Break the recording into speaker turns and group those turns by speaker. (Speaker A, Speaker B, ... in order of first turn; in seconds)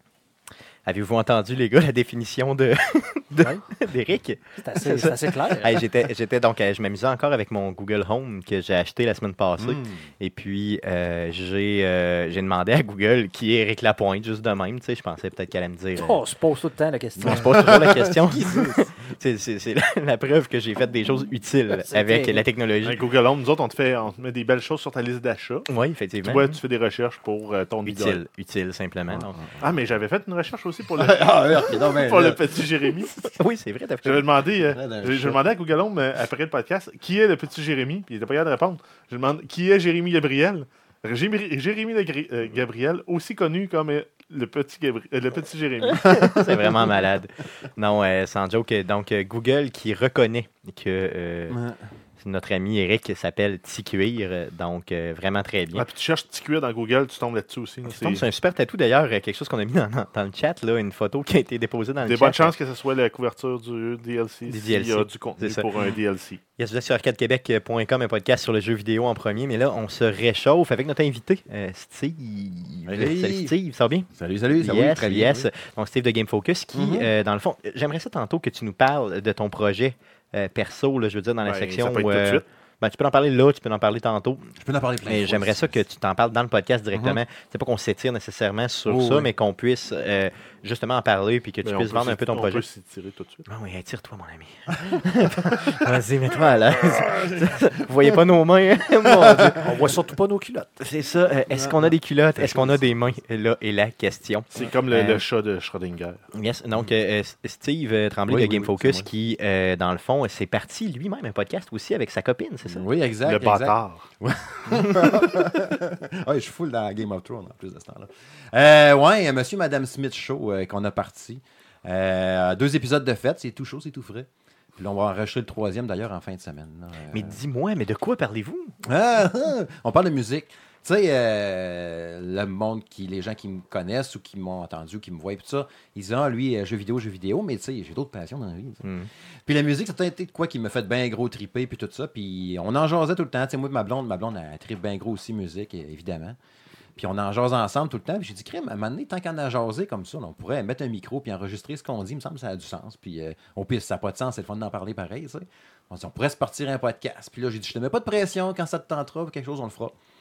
Speaker A: 0.9-16.3, 17.2-23.0, 25.7-26.6, 27.9-29.6, 33.2-34.3, 46.0-51.6, 52.2-55.9, 57.9-62.5, 64.5-65.7, 66.6-84.5, 85.0-92.6, 93.5-99.7, 100.8-105.2, 106.3-112.8, 127.1-128.8, 138.8-139.1
Speaker B: 4.6-5.8, 16.0-17.9, 21.8-22.4, 99.6-100.7
Speaker C: 9.6-10.0, 17.4-18.6, 29.1-29.6, 30.9-32.5, 34.7-35.4, 46.0-46.8, 51.5-51.8, 72.9-73.6, 74.1-75.5, 76.7-77.1, 84.6-85.8, 86.9-87.2, 88.9-89.3, 101.5-101.9, 108.3-109.1, 112.7-127.4, 128.8-138.8, 139.5-146.4, 147.0-159.9
Speaker D: 22.8-25.7, 26.2-28.2, 29.6-33.3, 34.0-46.1, 55.7-58.2, 62.0-66.4, 81.4-82.5, 91.6-93.5, 104.5-106.2, 113.3-114.0